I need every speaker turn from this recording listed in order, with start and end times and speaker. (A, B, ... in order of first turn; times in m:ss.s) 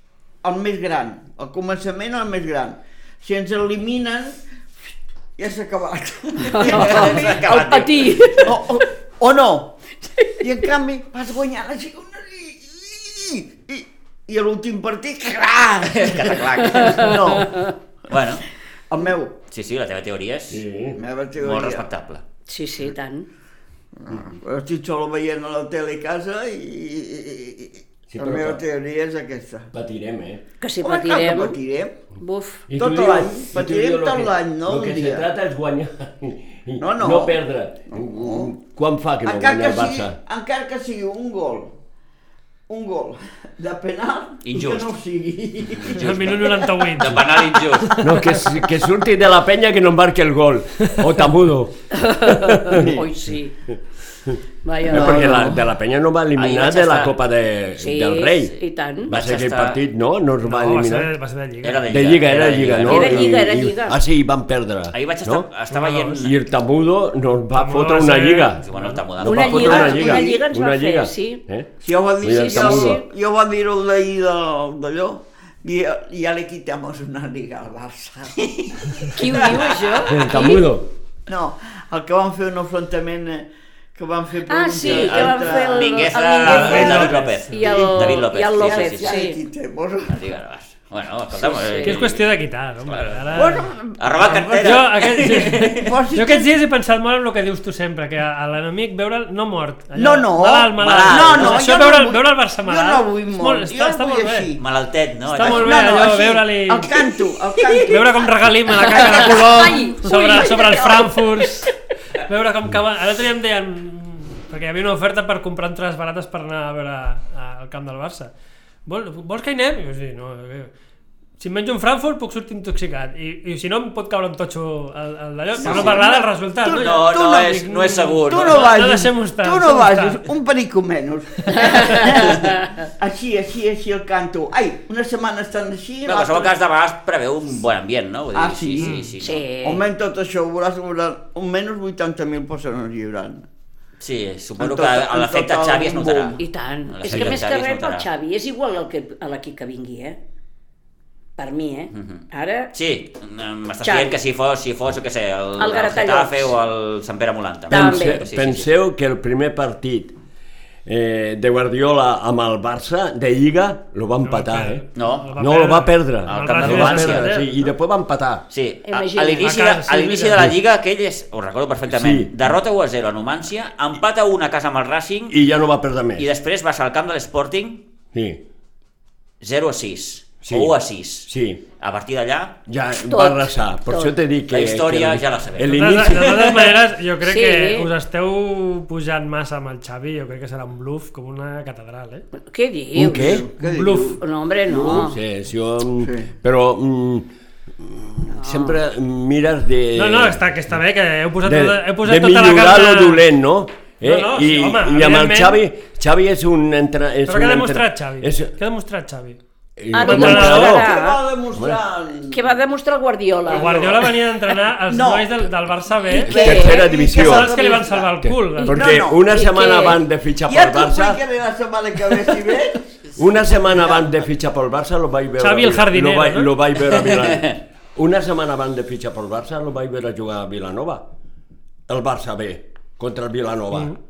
0:00.4-0:04.4 A
0:05.4-0:09.8 A
0:06.4-0:08.6 B
0:06.5-0:08.6 C
0:10.2-0:10.4 B
0:10.4-0:17.7 A
0:15.9-0:17.5 C
0:16.7-0:17.7 B
0:18.1-0:18.5 C
0:18.9-0:19.4 A
0:19.5-0:20.6 C
0:20.5-0:21.0 D
0:21.0-0:21.9 A
0:21.4-0:22.2 C
0:22.5-0:23.3 B
0:24.0-0:29.7 A
0:28.1-0:28.6 D
0:29.7-0:30.4 D
0:30.6-0:31.6 B
0:30.8-0:32.0 A
0:32.2-0:32.7 B
0:32.7-0:40.2 D
0:32.8-0:35.3 A
0:36.8-0:38.5 A
0:39.2-0:41.8 A
0:42.7-0:47.8 A
0:44.4-0:44.9 C
0:45.9-0:48.4 E
0:47.0-0:48.0 C
0:48.0-0:58.6 D
0:51.9-0:53.5 B
0:52.7-0:53.0 A
0:54.6-0:55.6 B
0:54.9-0:55.6 A
0:56.4-0:57.2 C
0:57.8-0:59.1 B
0:59.1-0:59.8 C
0:59.1-1:01.1 D
1:00.5-1:02.0 E
1:01.6-1:03.3 C
1:01.9-1:05.5 D
1:02.8-1:04.0 B
1:04.9-1:06.4 C
1:05.7-1:06.2 E
1:06.2-1:13.0 D
1:07.6-1:09.0 E
1:08.6-1:09.9 C
1:09.2-1:11.4 B
1:09.6-1:10.4 A
1:11.8-1:20.0 A
1:12.2-1:13.0 B
1:19.0-1:20.7 B
1:20.1-1:20.9 D
1:21.3-1:30.2 A
1:24.5-1:29.4 B
1:24.8-1:29.2 C
1:26.5-1:27.6 E
1:30.0-1:32.3 C
1:31.4-1:32.0 B
1:31.8-1:33.7 E
1:32.8-1:36.0 C
1:33.3-1:36.5 A
1:34.6-1:44.5 E
1:40.0-1:44.6 A
1:40.8-1:41.6 C
1:44.6-1:45.9 C
1:45.3-1:46.9 E
1:45.4-1:51.2 A
1:47.6-1:47.9 B
1:47.9-1:58.3 E
1:48.8-1:51.7 B
1:58.8-2:00.7 E
2:01.4-2:10.3 E
2:05.6-2:16.5 A
2:05.6-2:06.0 C
2:06.8-2:08.8 C
2:11.5-2:12.6 B
2:11.6-2:12.0 E
2:16.1-2:19.4 C
2:18.3-2:19.0 A
2:18.8-2:19.1 E
2:19.2-2:19.8 B
2:19.6-2:23.5 A
2:24.0-2:28.1 C
2:24.6-2:26.4 A
2:26.4-2:30.2 B
2:31.4-2:32.7 B
2:31.9-2:38.7 C
2:33.8-2:34.2 B
2:35.6-2:36.5 B
2:37.7-2:40.2 D
2:37.7-2:38.2 B
2:40.9-2:44.8 D
2:44.2-2:47.5 E
2:45.0-2:45.3 C
2:45.4-2:48.4 D
2:46.3-2:47.3 C
2:48.5-2:55.4 C
2:48.8-2:49.6 B
2:49.4-2:50.4 E
2:51.9-2:52.5 D
2:55.3-2:56.3 D
2:56.2-2:57.8 C
2:58.1-2:58.4 D
2:59.4-3:02.6 C
3:00.4-3:01.6 D
3:02.7-3:06.6 D
3:03.0-3:04.2 B
3:04.5-3:06.7 C
3:05.6-3:12.2 E
3:07.2-3:07.9 B
3:12.4-3:15.2 B
3:13.0-3:13.5 D
3:13.1-3:15.1 A
3:14.7-3:20.7 D
3:16.0-3:16.3 A
3:18.3-3:18.8 B
3:20.0-3:23.2 E
3:21.4-3:28.5 D
3:24.0-3:25.6 E
3:27.3-3:29.4 E
3:29.8-3:30.9 D
3:29.9-3:31.2 B
3:30.0-3:30.8 E
3:30.6-3:32.6 A
3:31.5-3:31.8 D
3:32.3-3:34.0 B
3:33.5-3:34.2 A
3:33.5-3:36.4 E
3:34.9-3:35.5 A
3:36.1-3:38.2 A
3:36.1-3:37.6 D
3:36.2-3:37.8 B
3:37.1-3:38.8 E
3:38.2-3:41.2 D
3:38.5-3:40.0 B
3:38.7-3:39.2 A
3:40.5-3:42.9 A
3:43.2-3:51.0 D
3:43.8-3:44.0 A
3:45.4-3:46.5 E
3:46.9-3:47.6 C
3:51.9-3:54.0 D